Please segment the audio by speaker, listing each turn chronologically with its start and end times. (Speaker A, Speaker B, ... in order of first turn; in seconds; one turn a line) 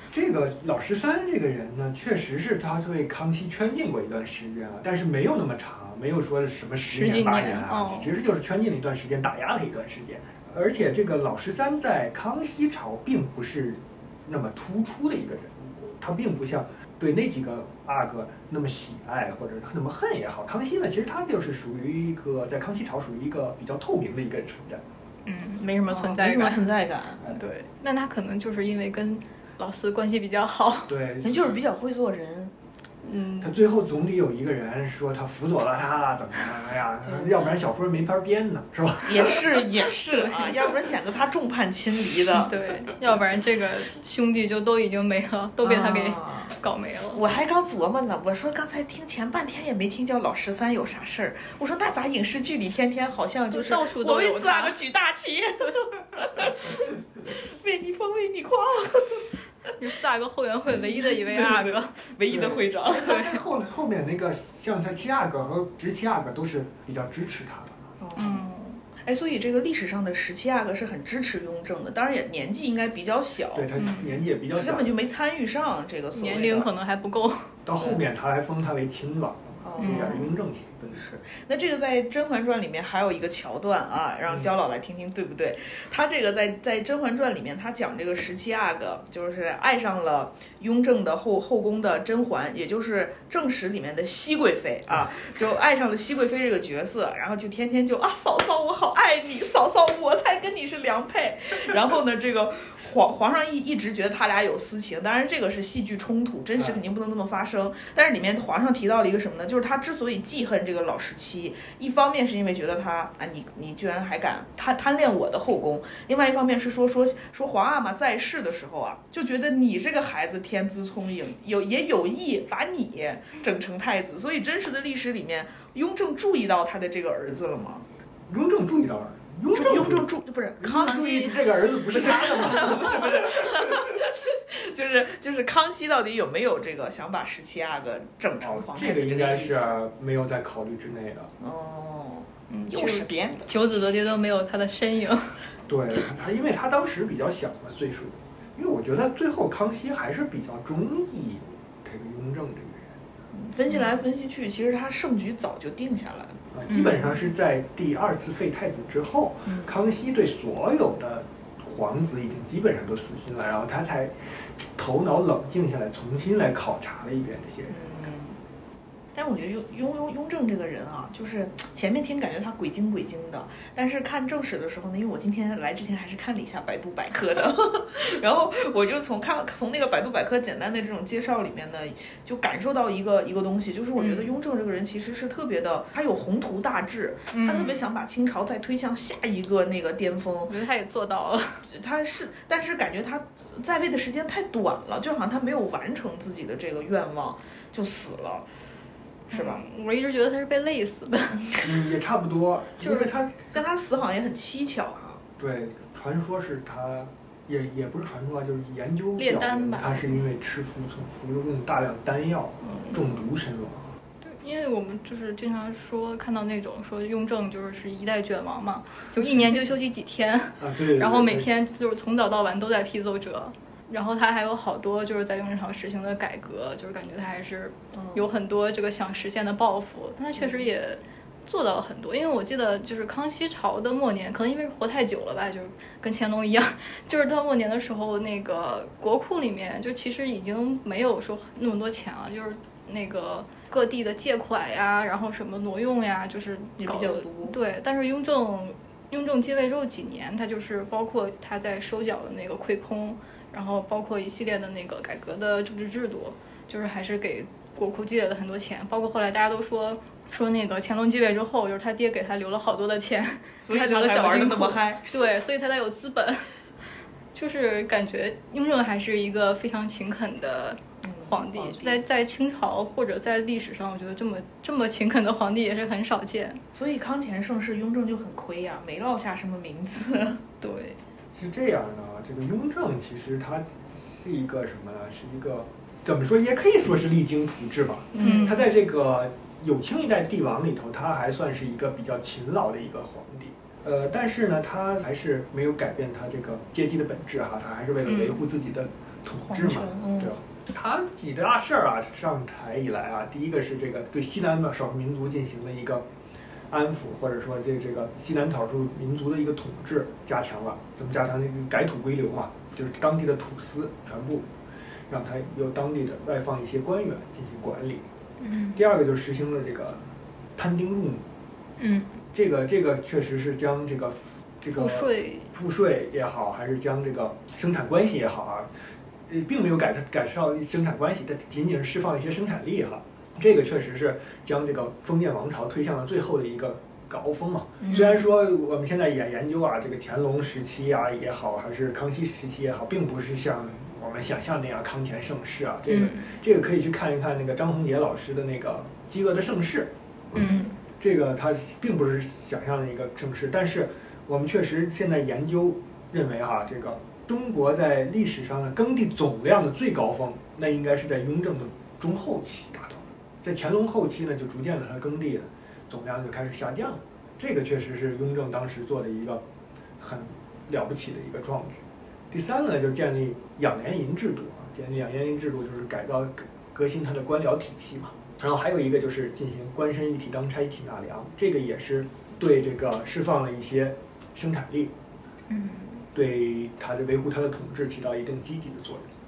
Speaker A: 0.1-24.8
Speaker B: 6.9-8.2
Speaker B: 25.2-26.7
Speaker C: 25.9-27.2
Speaker B: 27.2-30.9
Speaker A: 30.9-31.5
Speaker C: 31.2-32.5
Speaker B: 33.0-33.6
Speaker A: 33.4-39.5
Speaker C: 37.1-37.4
Speaker C: 39.1-42.5
Speaker B: 40.1-40.6
Speaker B: 42.4-47.2
Speaker C: 45.6-46.5
Speaker C: 47.1-59.3
Speaker B: 53.5-54.8
Speaker B: 59.8-61.9
Speaker C: 61.2-63.2
Speaker A: 62.3-67.9
Speaker B: 62.9-63.4
Speaker C: 68.0-73.7
Speaker B: 68.2-68.8
Speaker A: 73.5-74.9
Speaker B: 73.7-74.2
Speaker C: 74.5-76.7
Speaker B: 76.1-77.5
Speaker A: 77.7-81.0
Speaker C: 79.6-80.2
Speaker B: 79.8-80.3
Speaker C: 80.9-127.8
Speaker A: 128.3-134.0
Speaker C: 129.5-139.7
Speaker B: 130.8-131.6
Speaker A: 138.4-141.3
Speaker C: 141.4-143.5
Speaker B: 142.5-145.4
Speaker A: 145.7-152.9
Speaker C: 153.3-156.4
Speaker A: 156.5-164.1
Speaker B: 156.7-157.2
Speaker C: 159.4-159.7
Speaker A: 164.8-167.8
Speaker C: 167.7-168.4
Speaker C: 169.1-190.5
Speaker B: 184.0-184.4
Speaker B: 187.3-187.8
Speaker B: 190.5-191.7
Speaker C: 191.7-198.5
Speaker B: 199.3-201.6
Speaker C: 199.3-199.6
Speaker A: 201.6-203.5
Speaker C: 203.5-205.2
Speaker A: 205.4-213.9
Speaker B: 209.2-210.2
Speaker B: 212.6-213.2
Speaker B: 214.2-266.6
Speaker A: 220.6-221.5
Speaker C: 227.9-228.2
Speaker C: 246.8-247.6
Speaker C: 263.6-265.1
Speaker B: 267.3-276.6
Speaker C: 271.0-272.0
Speaker C: 276.7-280.4
Speaker B: 280.6-281.0
Speaker A: 281.4-306.1
Speaker C: 288.1-288.5
Speaker B: 288.1-288.6
Speaker C: 299.4-300.4
Speaker A: 306.7-314.5
Speaker A: 315.1-318.1
Speaker B: 318.4-318.8
Speaker A: 318.7-321.2
Speaker B: 321.8-322.2
Speaker A: 322.3-328.7
Speaker B: 324.8-325.5
Speaker A: 329.3-369.4
Speaker C: 337.8-338.2
Speaker B: 345.9-346.3
Speaker B: 350.3-350.7
Speaker A: 370.0-384.9
Speaker B: 385.5-386.1
Speaker A: 386.1-389.1